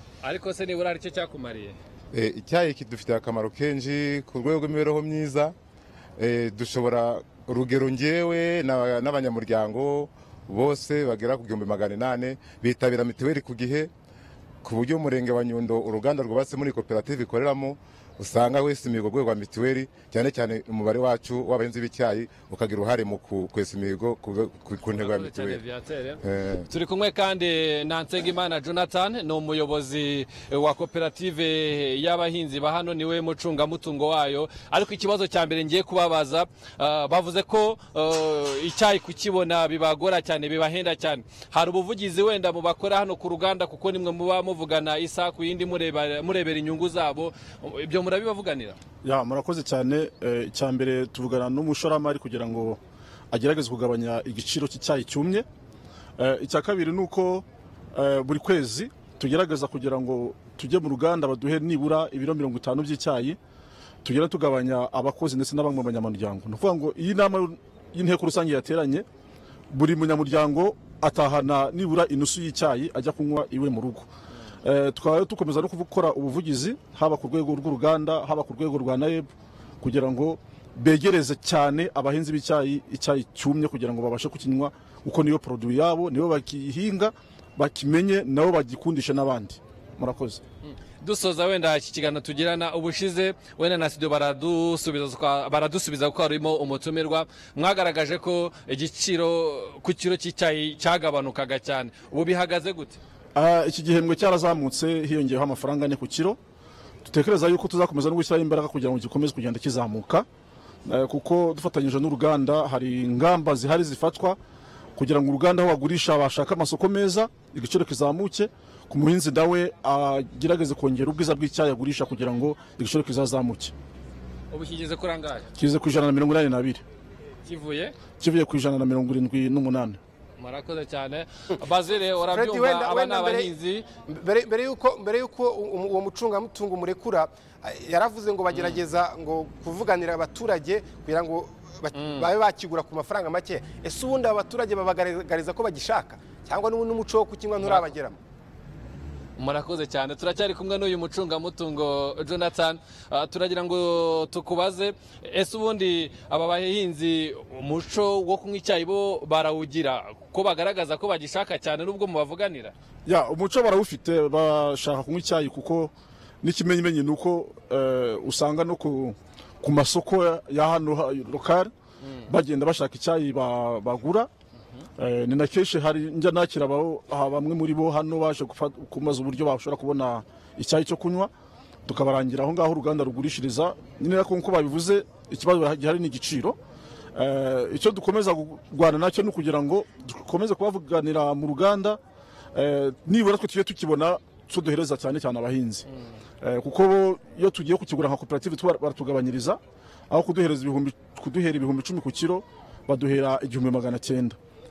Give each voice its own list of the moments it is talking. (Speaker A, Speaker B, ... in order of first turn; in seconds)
Speaker A: 0.2-1.8, 25.0-48.8, 91.0-103.0, 124.5-125.5, 127.4-128.0, 130.4-133.8, 138.5-138.8, 141.9-142.3, 149.4-162.7
Speaker B: 2.1-5.5, 6.2-13.9, 14.6-25.6, 26.2-26.7
Speaker C: 49.0-52.8, 53.3-55.5, 56.2-63.4, 64.0-69.0, 69.7-74.1, 74.6-79.3, 79.8-90.4, 103.3-106.4, 107.0-110.2, 110.8-114.4, 115.0-123.7, 125.5-126.8, 128.1-130.0, 163.1-171.7, 172.3-174.3, 175.0-181.3, 181.8-186.6, 187.1-192.0, 192.5-195.8, 196.4-204.4
Speaker D: 132.3-133.5, 134.1-148.2